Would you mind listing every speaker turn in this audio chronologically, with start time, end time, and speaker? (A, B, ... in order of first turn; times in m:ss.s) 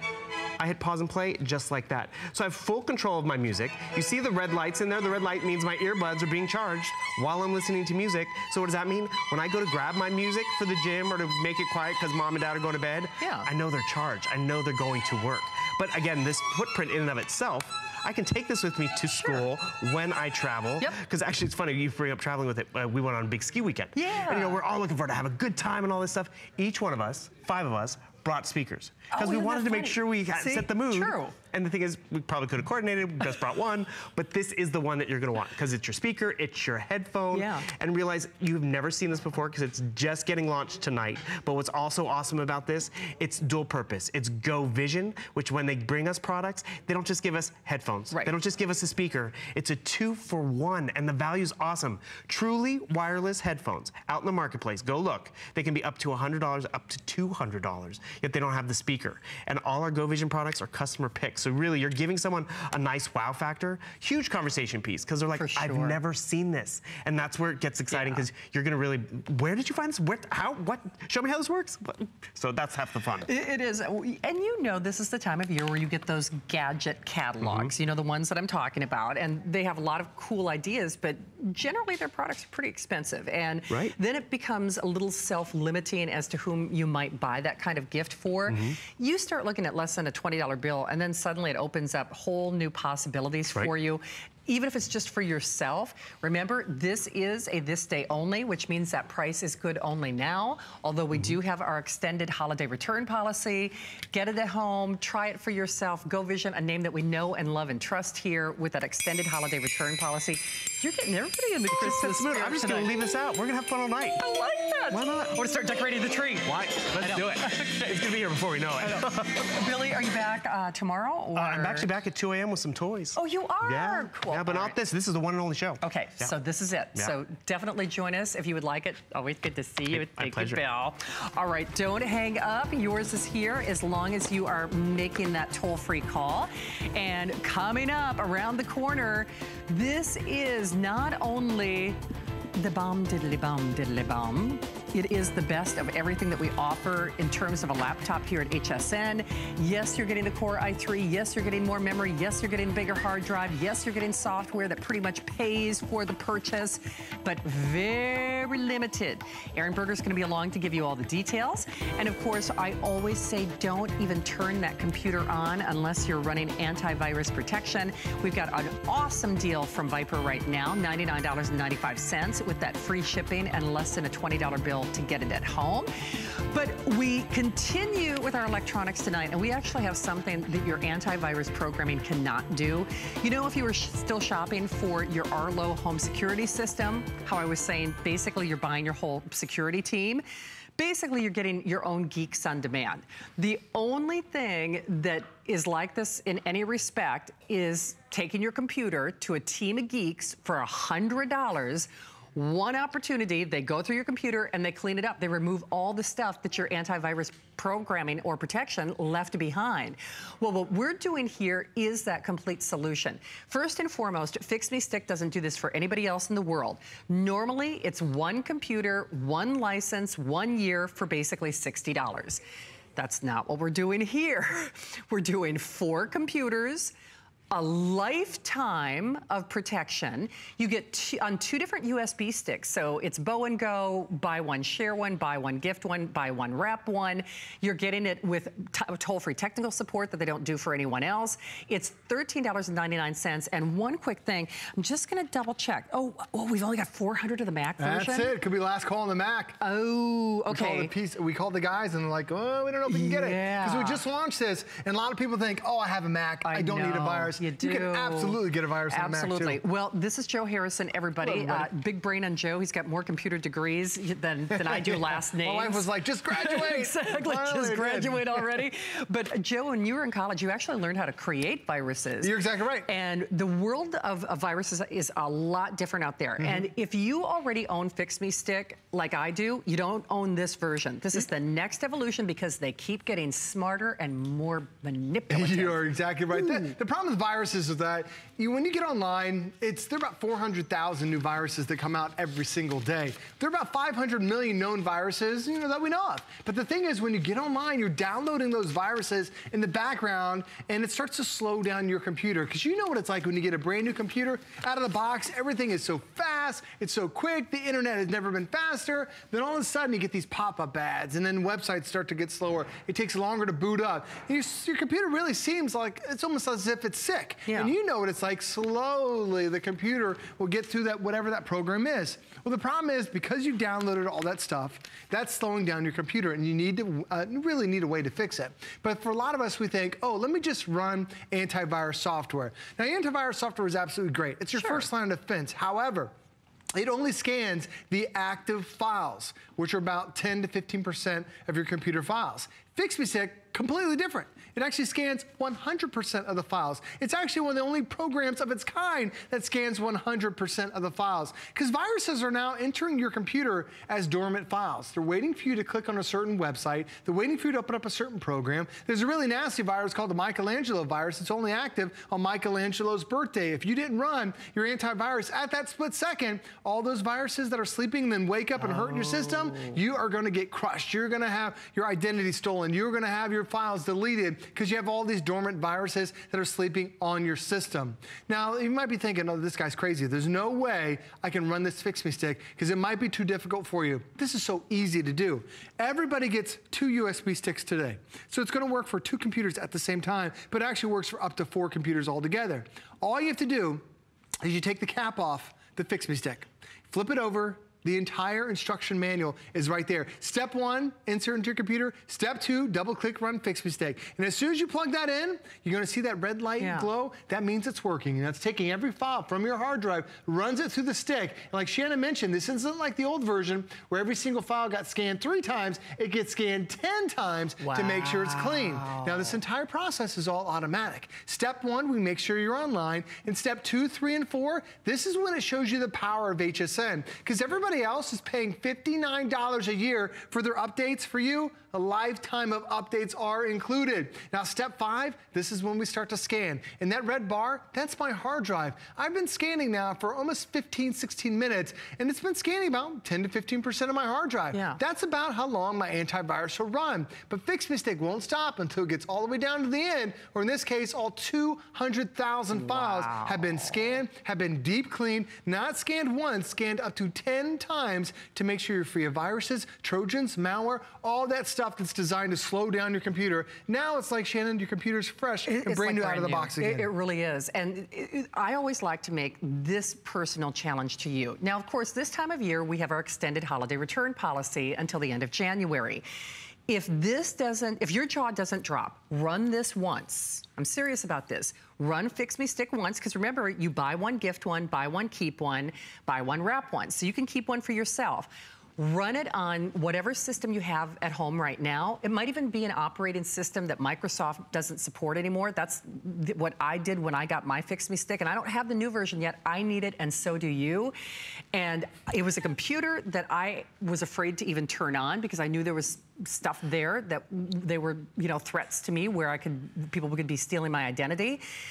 0:00.6-1:13.3 A
0:13.2-0:13.5 B
0:19.1-0:19.4 B
0:24.0-0:24.6 B
0:29.1-0:31.3 B
0:37.3-0:37.7 B
1:05.4-1:06.0 B
1:07.9-1:08.3 B
1:13.3-1:52.9 B
1:17.4-1:17.7 A
1:28.5-1:28.8 A
1:51.7-1:54.2 A
1:54.2-1:58.1 B
1:54.9-1:55.4 A
1:56.4-1:59.6 A
1:58.8-2:01.9 B
2:01.4-2:06.3 A
2:03.2-2:04.8 B
2:05.8-2:22.0 B
2:09.9-2:10.6 A
2:22.6-3:10.2 B
3:10.8-3:42.4 B
3:43.0-3:46.9 B
3:47.5-4:08.4 B
4:07.8-4:09.6 C
4:09.6-4:10.9 B
4:10.5-4:19.6 C
4:12.9-4:14.0 B
4:16.4-4:32.3 B
4:21.2-4:21.7 C
4:24.5-4:28.5 C
4:32.2-4:32.9 C
4:32.8-4:46.7 B
4:36.4-4:36.7 C
4:45.3-5:36.1 C
5:17.5-5:17.7 B
5:34.6-5:34.8 B
5:36.7-6:33.8 C
6:08.6-6:09.8 B
6:34.4-7:46.9 C
6:46.6-6:46.9 B
6:57.6-6:59.4 B
7:24.5-7:24.8 B
7:32.5-7:33.9 B
7:45.5-7:56.0 B
7:56.7-8:21.0 B
8:21.5-8:31.4 B